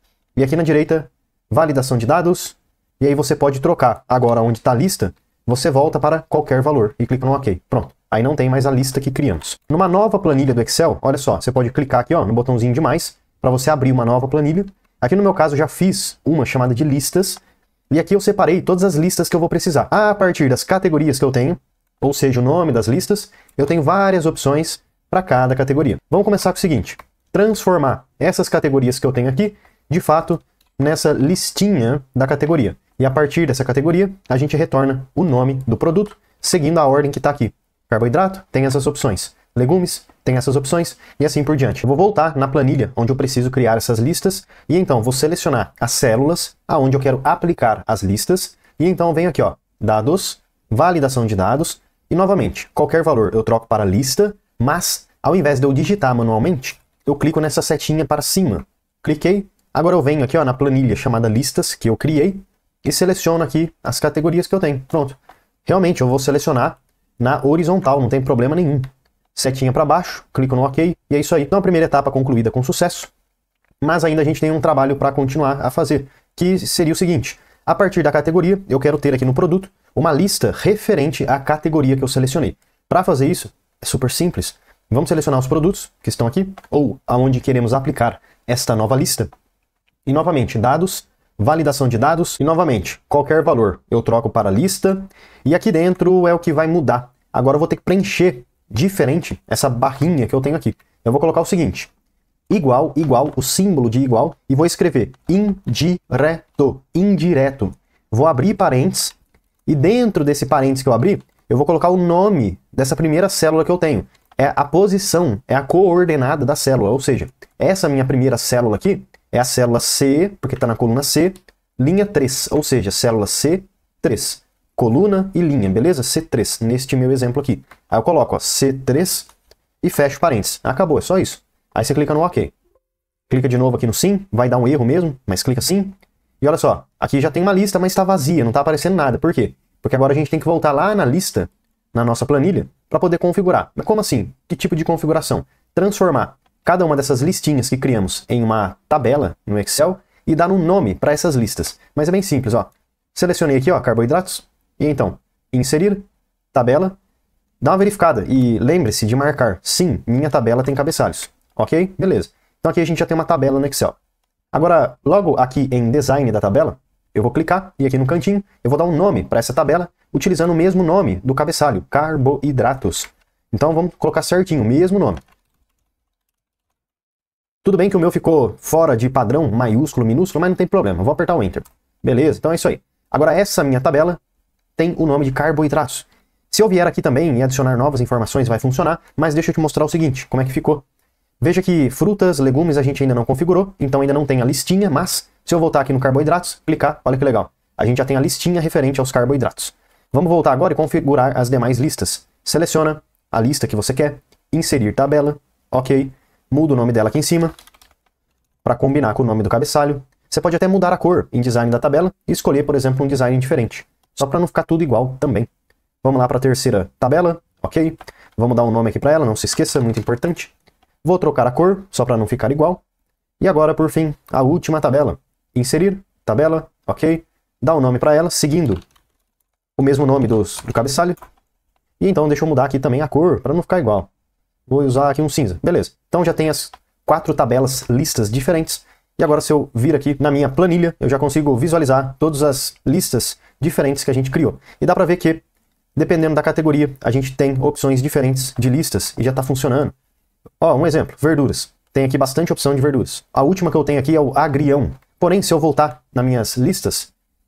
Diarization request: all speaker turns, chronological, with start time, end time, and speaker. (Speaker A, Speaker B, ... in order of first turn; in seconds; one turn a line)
Speaker A: 0.4-73.1
Speaker A: 73.8-89.3
Speaker A: 90.1-101.9
Speaker A: 102.5-109.2
Speaker A: 109.7-129.3
Speaker A: 129.8-132.5
Speaker A: 133.3-157.0
Speaker A: 157.6-164.0
Speaker A: 164.5-175.2
Speaker A: 177.6-184.2
Speaker A: 184.8-190.8
Speaker A: 191.4-207.5
Speaker A: 208.6-215.5
Speaker A: 216.0-220.5
Speaker A: 221.0-222.8
Speaker A: 223.4-228.8
Speaker A: 229.8-231.2
Speaker A: 232.0-234.1
Speaker A: 234.7-245.4
Speaker A: 245.9-249.9
Speaker A: 250.6-257.1